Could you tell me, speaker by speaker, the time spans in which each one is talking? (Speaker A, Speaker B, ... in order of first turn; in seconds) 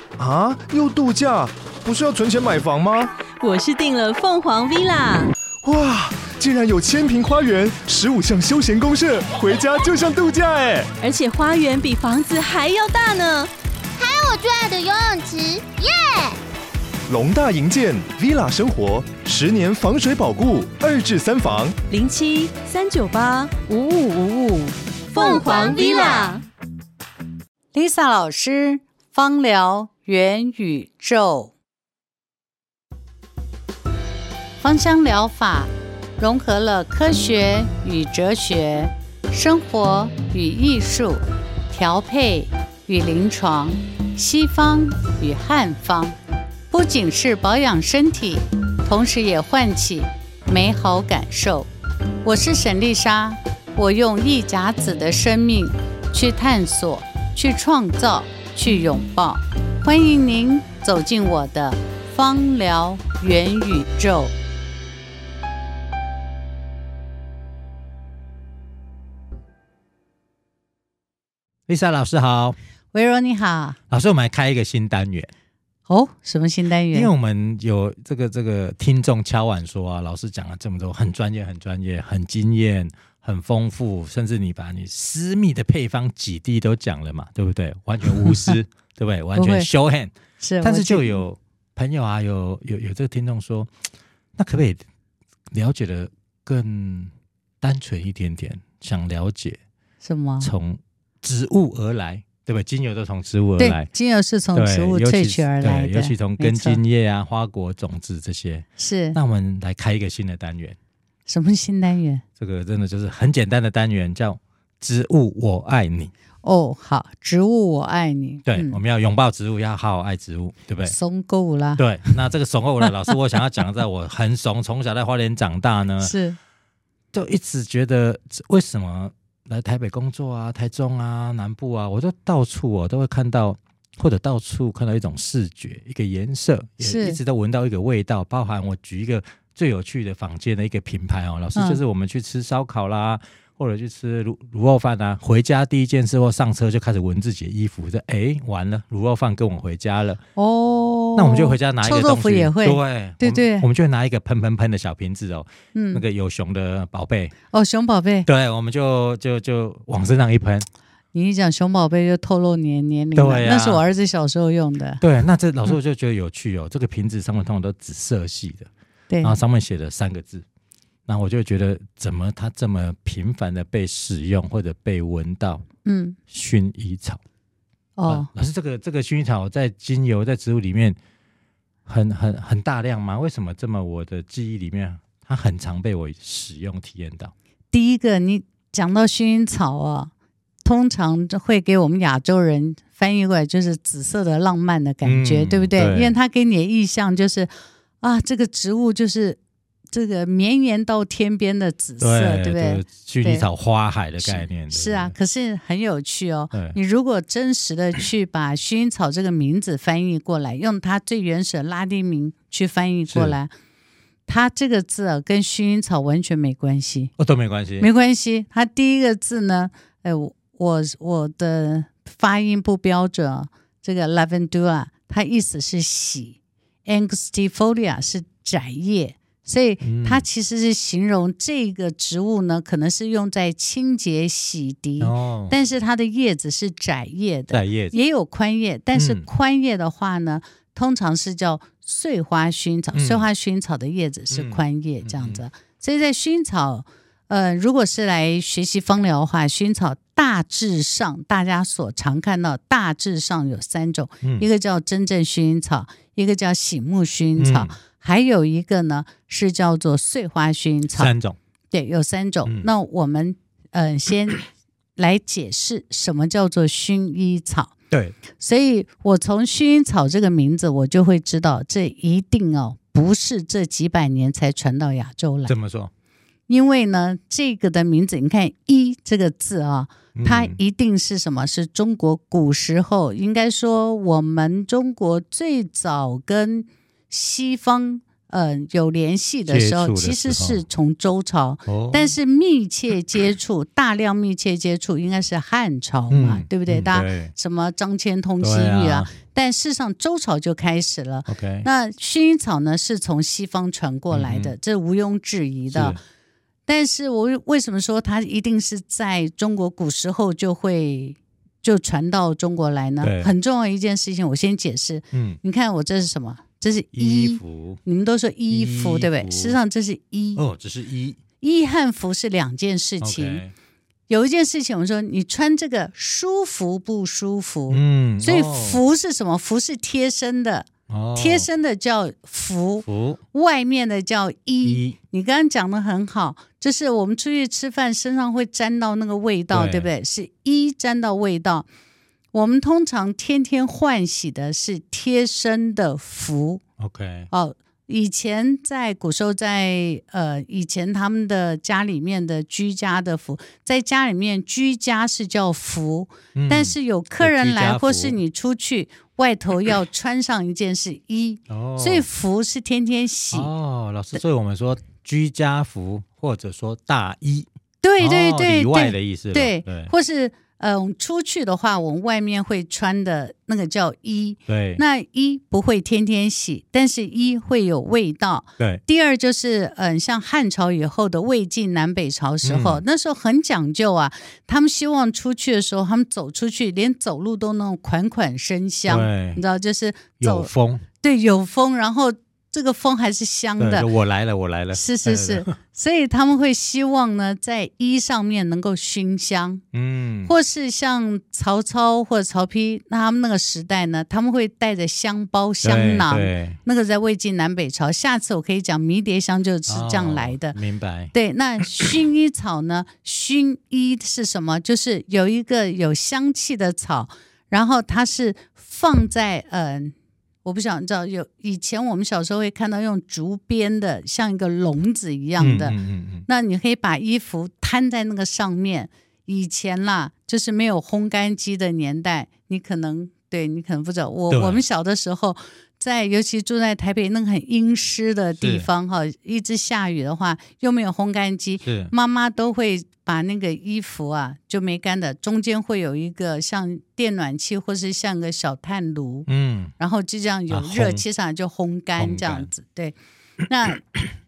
Speaker A: 0.2-3.1, 5.6-10.9, 17.1-21.8
Speaker B: 3.4-5.3, 11.0-13.5, 21.9-23.9, 25.1-26.4
Speaker C: 14.0-16.4, 25.2-26.4
Speaker D: 23.7-24.7, 27.7-31.5, 34.6-46.2, 46.7-51.7, 52.2-64.3, 72.9-73.8, 75.9-77.1, 88.2-88.5, 89.3-89.7, 90.4-91.2, 100.0-100.5, 103.6-106.8, 108.8-109.2, 111.3-112.2, 116.4-118.8, 120.8-122.1, 126.0-126.4, 136.8-137.2, 141.6-141.8, 150.4-153.7, 155.7-156.0, 157.5-158.3, 161.1-165.0, 169.1-169.4, 175.8-176.2, 178.0-178.3, 187.7-190.1, 190.6-197.5, 198.0-199.4, 199.9-203.5, 204.2-213.5, 214.3-217.1, 217.8-261.1, 261.7-264.4, 265.0-267.7, 268.3-275.5, 276.5-306.0, 306.7-320.4, 321.4-323.4, 324.1-341.7, 342.3-346.6, 347.3-363.5, 367.8-390.5, 391.0-393.9, 394.7-399.6, 400.3-410.6, 411.1-419.9, 420.4-453.9
Speaker E: 71.7-72.6, 73.9-75.3, 76.9-93.7, 94.4-94.8, 95.5-99.6, 100.4-103.9, 104.5-110.8, 112.4-116.1, 118.5-121.0, 121.8-126.1, 127.1-150.2, 151.2-157.3, 158.2-160.7, 163.2-163.8, 165.0-168.7, 169.2-170.4, 171.1-175.7, 176.3-177.2, 178.1-181.0, 181.9-187.3, 195.0-196.2, 202.0-205.2, 206.5-206.8, 213.1-213.4, 217.2-217.9, 229.8-230.2, 235.0-235.6, 237.5-237.9, 238.9-239.3, 242.9-243.3, 244.3-245.4, 257.4-257.8, 260.9-261.4, 267.9-268.2, 275.5-275.9, 280.1-280.6, 289.5-290.6, 291.7-292.1, 296.1-297.3, 298.4-299.1, 301.3-301.7, 304.1-304.5, 305.7-306.0, 313.0-313.3, 315.1-315.4, 316.9-317.8, 318.5-319.6, 320.4-321.2, 323.0-323.5, 327.7-328.8, 330.9-331.5, 332.9-333.2, 334.6-335.0, 339.5-339.9, 346.8-347.3, 356.4-358.2, 361.5-362.1, 363.3-367.5, 368.0-369.9, 374.5-374.8, 382.4-382.8, 388.9-389.4, 390.2-390.9, 393.6-395.5, 399.7-400.3, 405.6-406.6, 409.7-411.1, 425.4-426.3, 434.3-434.6, 438.4-438.7, 441.6-441.9, 449.3-449.7, 450.5-451.0, 452.0-452.5